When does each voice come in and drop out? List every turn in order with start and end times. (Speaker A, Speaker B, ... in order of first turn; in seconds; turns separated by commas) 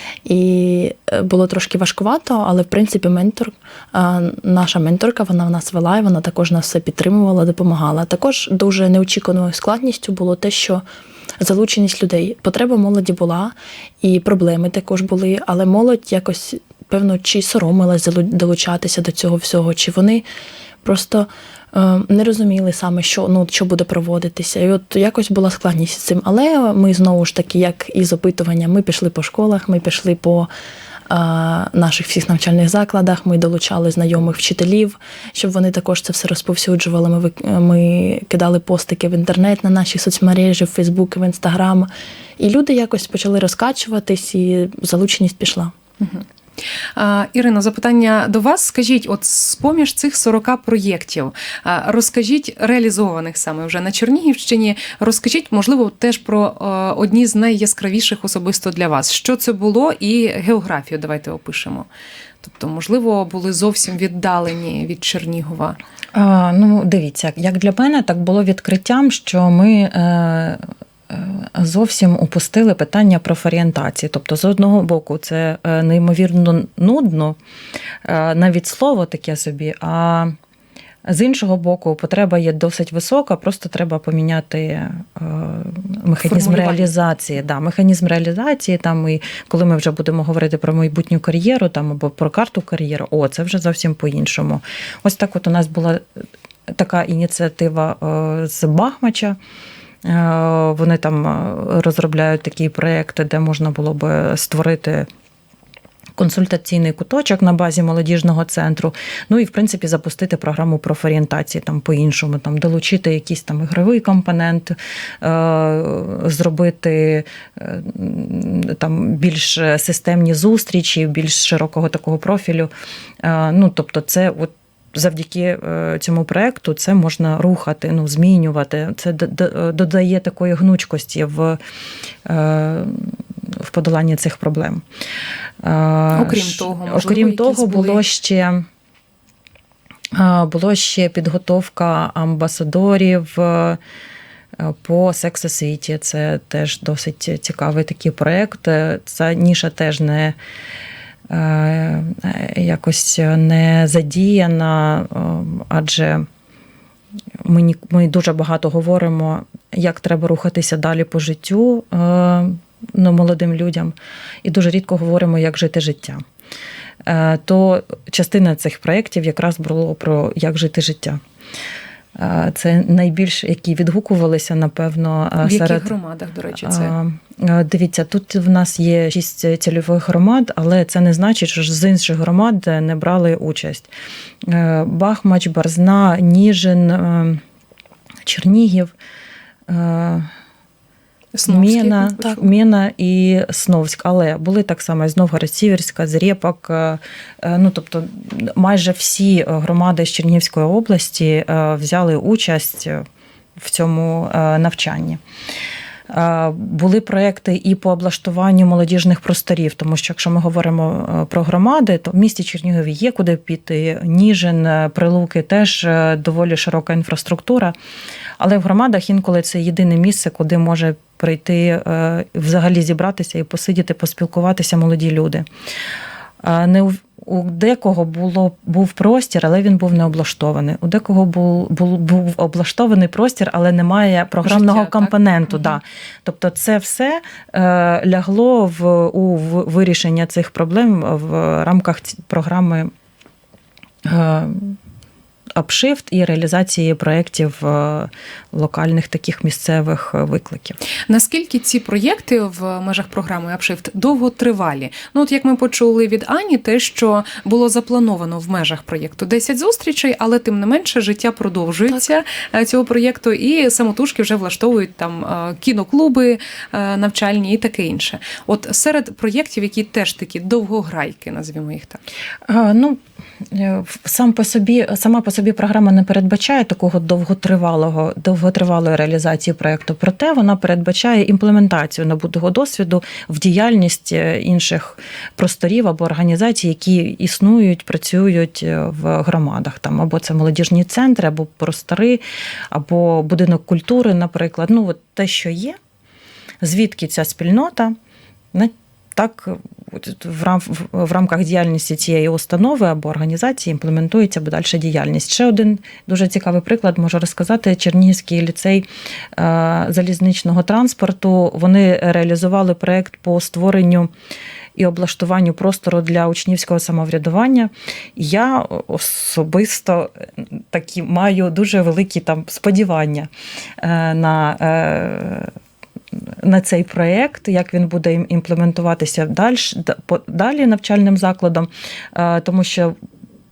Speaker A: 0.2-10.8, Speaker A: 11.4-20.2, Speaker A: 20.8-30.5, Speaker A: 31.1-45.7, Speaker B: 46.0-46.2, Speaker B: 47.0-61.9, Speaker B: 62.4-65.8, Speaker C: 66.1-77.4, Speaker C: 78.0-80.3, Speaker C: 81.1-96.0, Speaker B: 86.2-86.9, Speaker C: 96.7-99.4, Speaker C: 100.0-105.1, Speaker C: 106.2-122.7, Speaker C: 123.2-131.6, Speaker C: 132.2-134.8, Speaker C: 135.6-138.7, Speaker B: 136.1-138.0, Speaker C: 140.1-143.8, Speaker C: 144.6-150.4, Speaker C: 151.3-156.3, Speaker C: 157.4-166.2, Speaker C: 167.0-171.2, Speaker C: 172.1-175.9, Speaker B: 175.4-176.9, Speaker C: 176.6-183.9, Speaker C: 184.4-187.4, Speaker C: 188.2-188.9, Speaker C: 189.7-190.3, Speaker B: 191.3-192.4, Speaker C: 191.5-203.0, Speaker C: 203.6-205.2, Speaker C: 206.1-217.7, Speaker C: 218.4-225.4, Speaker C: 226.4-242.9, Speaker B: 234.4-235.1, Speaker C: 244.0-244.8, Speaker C: 245.6-250.8, Speaker B: 251.1-272.0, Speaker C: 272.5-295.8, Speaker C: 296.6-297.9, Speaker C: 298.5-314.1, Speaker C: 314.8-325.5, Speaker C: 326.3-332.9